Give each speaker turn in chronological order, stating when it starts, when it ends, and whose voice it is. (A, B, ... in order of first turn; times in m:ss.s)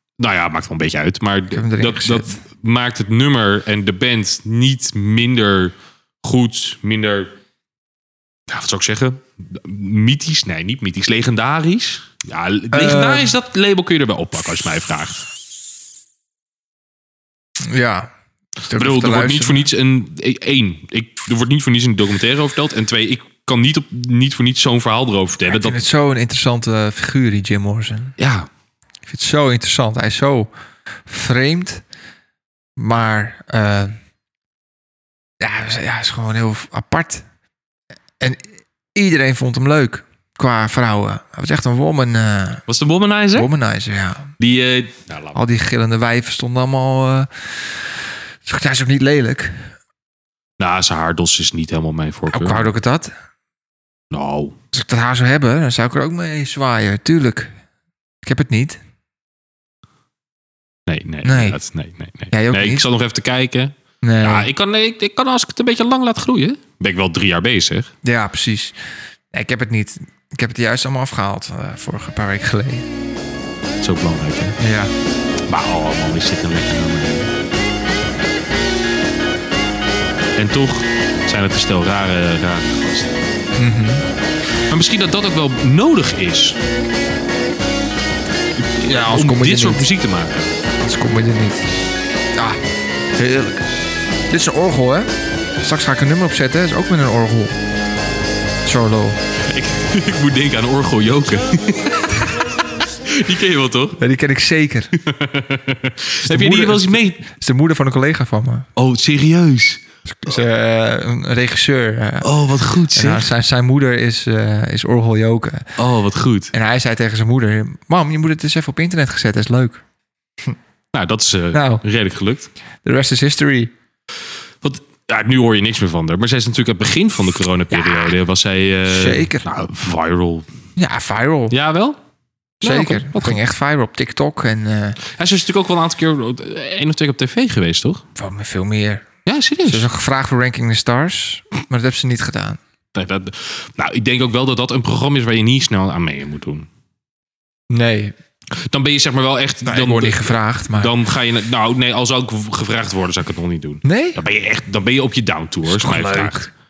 0:00.2-0:07.3 A
0:01.5-0:02.4 B
0:08.5-0:15.2 A
0:12.7-0:13.4 B
0:17.6-0:18.1 B
0:18.6-0:19.7 B
0:18.7-0:25.8 A
0:25.5-0:28.2 B
0:28.2-0:28.5 A
0:29.1-0:30.5 B
0:31.1-0:31.8 B
0:32.8-0:34.0 B
0:35.4-0:37.2 B
0:39.0-0:42.6 B
0:42.7-0:43.5 A
0:43.3-0:44.3 B
0:44.4-0:45.4 A
0:45.3-0:47.9 B
0:48.4-0:49.6 B
0:50.6-0:52.7 A
0:52.3-0:53.1 B
0:54.1-0:54.6 A
0:54.7-0:57.5 B
0:58.2-0:58.8 B
1:00.9-1:07.9 A
1:01.2-1:01.6 B
1:02.3-1:02.9 B
1:04.0-1:04.5 B
1:08.0-1:08.8 B
1:09.3-1:12.9 B
1:13.8-1:14.6 A
1:14.6-1:14.9 B
1:15.5-1:17.3 A
1:20.4-1:23.2 A
1:23.6-1:24.0 B
1:24.7-1:26.6 A
1:28.6-1:30.5 A
1:28.8-1:29.9 B
1:30.8-1:31.7 B
1:32.4-1:32.6 B
1:33.2-1:33.7 B
1:34.3-1:37.6 B
1:38.6-1:39.2 B
1:39.4-1:42.4 A
1:43.0-1:44.0 A
1:44.0-1:44.9 B
1:45.0-1:47.2 A
1:46.2-1:48.7 B
1:48.8-1:49.8 A
1:50.1-1:52.3 B
1:52.2-1:53.3 A
1:52.9-1:55.7 B
1:55.8-1:56.5 A
1:56.5-1:59.8 B
2:00.9-2:02.5 A
2:01.5-2:01.8 B
2:02.8-2:03.7 B
2:04.6-2:10.5 A
2:07.7-2:08.2 B
2:08.9-2:09.5 B
2:10.8-2:11.6 B
2:11.5-2:12.0 A
2:12.6-2:13.4 A
2:12.6-2:15.0 B
2:15.1-2:18.0 A
2:18.2-2:19.1 B
2:19.3-2:19.9 A
2:19.7-2:22.6 B
2:22.9-2:26.7 A
2:27.7-2:28.2 B
2:28.5-2:36.5 A
2:29.6-2:31.0 B
2:33.8-2:34.2 B
2:35.6-2:36.5 B